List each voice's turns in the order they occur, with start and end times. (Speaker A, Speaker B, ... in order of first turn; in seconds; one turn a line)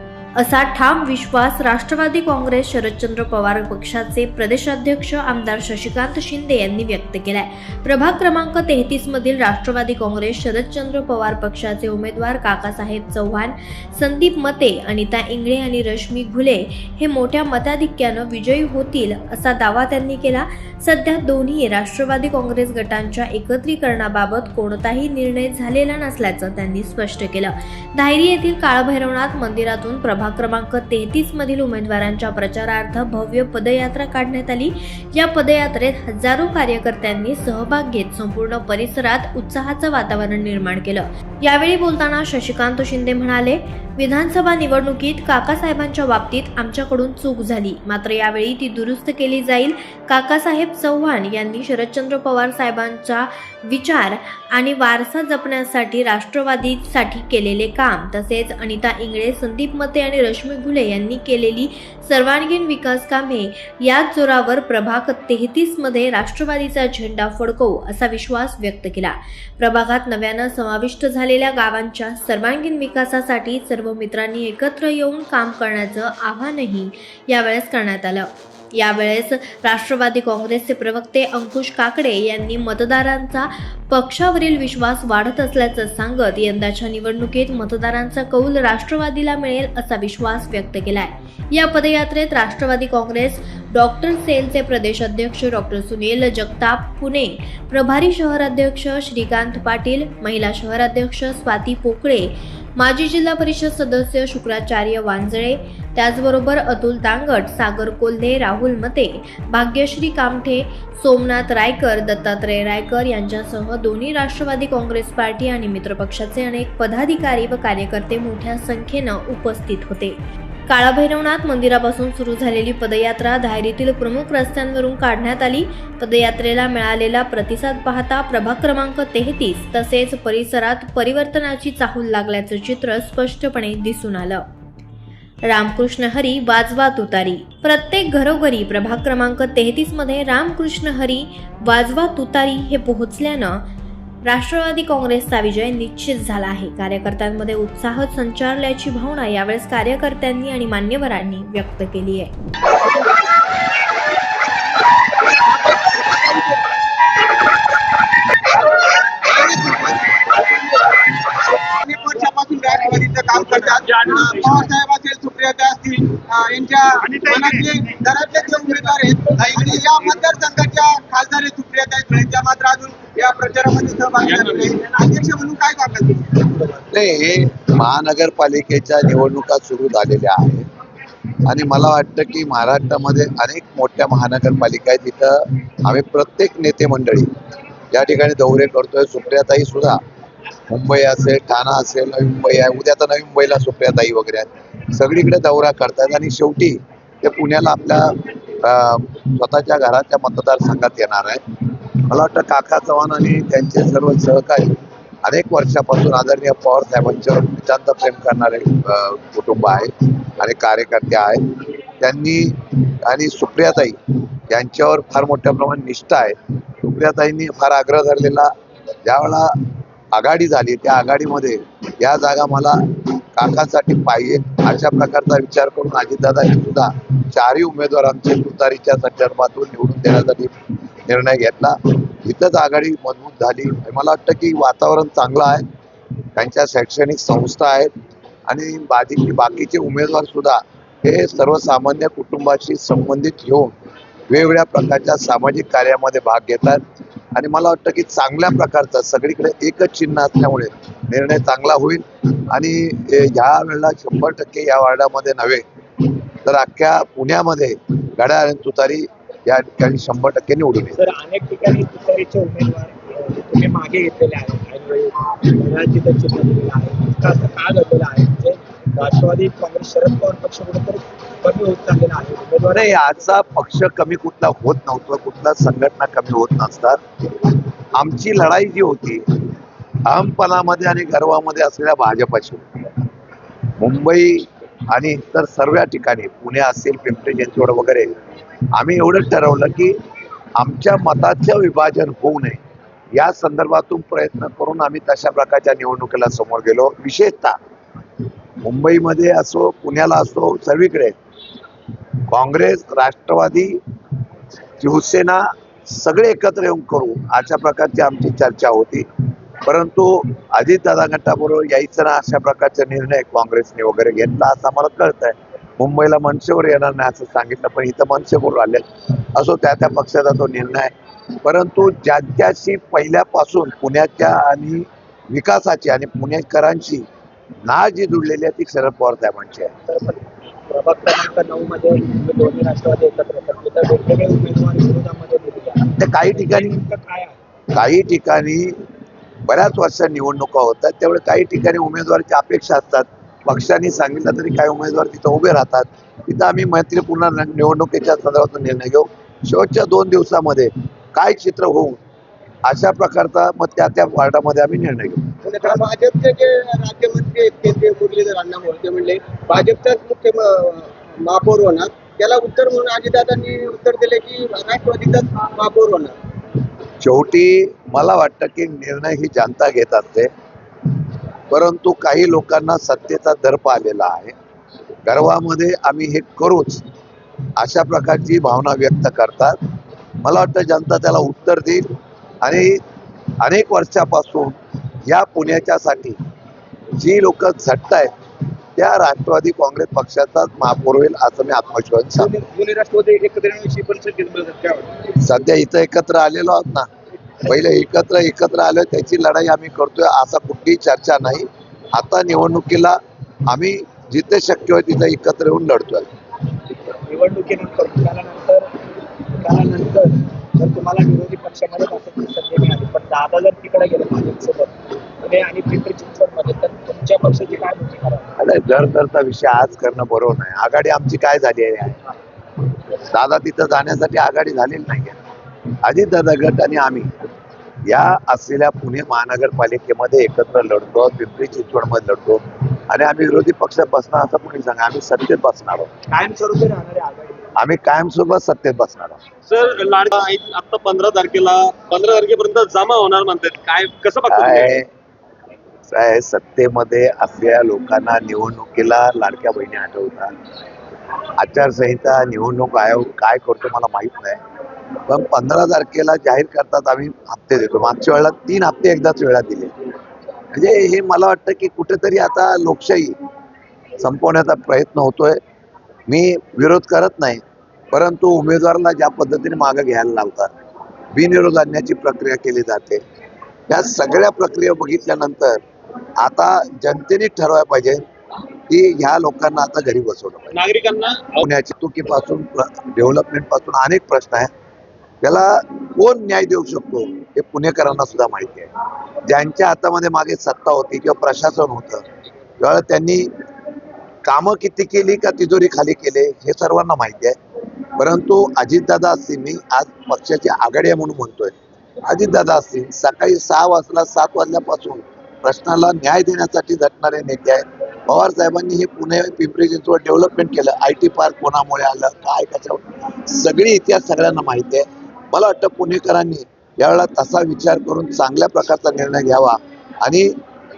Speaker A: 0.4-120.2
Speaker A: 120.7-134.5
Speaker A: 135.4-143.6
Speaker A: 144.2-152.3
Speaker B: 155.3-156.6
Speaker B: 158.8-176.8
Speaker C: 163.3-164.7
Speaker C: 167.0-167.7
Speaker C: 174.2-174.8
Speaker D: 176.9-180.7
Speaker D: 181.4-187.3
Speaker D: 187.9-190.0
Speaker D: 190.7-214.0
Speaker D: 214.5-218.5
Speaker D: 219.1-219.5
Speaker D: 220.1-230.6
Speaker D: 231.1-235.7
Speaker D: 236.4-237.9
Speaker D: 238.5-246.8
Speaker D: 247.3-255.6
Speaker D: 256.4-261.0
Speaker E: 260.9-273.4
Speaker D: 272.7-279.3
Speaker D: 280.1-282.9
Speaker D: 283.8-288.2
Speaker D: 288.7-290.0
Speaker D: 290.6-292.6
Speaker D: 293.1-297.6
Speaker D: 298.6-301.1
Speaker D: 302.3-303.8
Speaker D: 304.8-309.1
Speaker D: 309.6-320.9
Speaker D: 321.4-327.1
Speaker D: 327.6-329.7
Speaker E: 329.9-337.4
Speaker D: 335.9-336.7
Speaker D: 337.7-338.8
Speaker D: 339.5-352.0
Speaker D: 352.6-355.3
Speaker B: 355.4-366.1
Speaker D: 367.0-370.3
Speaker D: 371.5-374.3
Speaker D: 375.1-376.8
Speaker D: 377.6-379.6
Speaker D: 380.2-382.8
Speaker D: 383.4-386.2
Speaker D: 387.0-388.1
Speaker D: 388.8-392.3
Speaker E: 392.2-393.3
Speaker D: 395.2-396.9
Speaker D: 397.4-403.0
Speaker D: 403.5-406.1
Speaker E: 407.1-408.7
Speaker E: 409.4-418.3
Speaker D: 418.4-422.0
Speaker D: 423.0-425.1
Speaker D: 425.8-427.1
Speaker D: 427.9-435.9
Speaker E: 436.1-437.5
Speaker D: 437.6-439.2
Speaker C: 439.5-444.8
Speaker D: 444.3-444.9
Speaker D: 445.9-450.3
Speaker D: 451.4-454.4
Speaker D: 455.1-459.8
Speaker D: 460.5-463.1
Speaker D: 464.0-465.4
Speaker D: 466.1-470.5
Speaker D: 471.1-473.0
Speaker D: 473.7-475.6
Speaker D: 476.2-478.0
Speaker D: 478.7-480.6
Speaker C: 480.5-481.4
Speaker D: 481.4-484.5
Speaker D: 485.2-488.7
Speaker D: 489.2-492.0
Speaker D: 492.6-493.3
Speaker D: 494.2-497.4
Speaker D: 498.0-520.3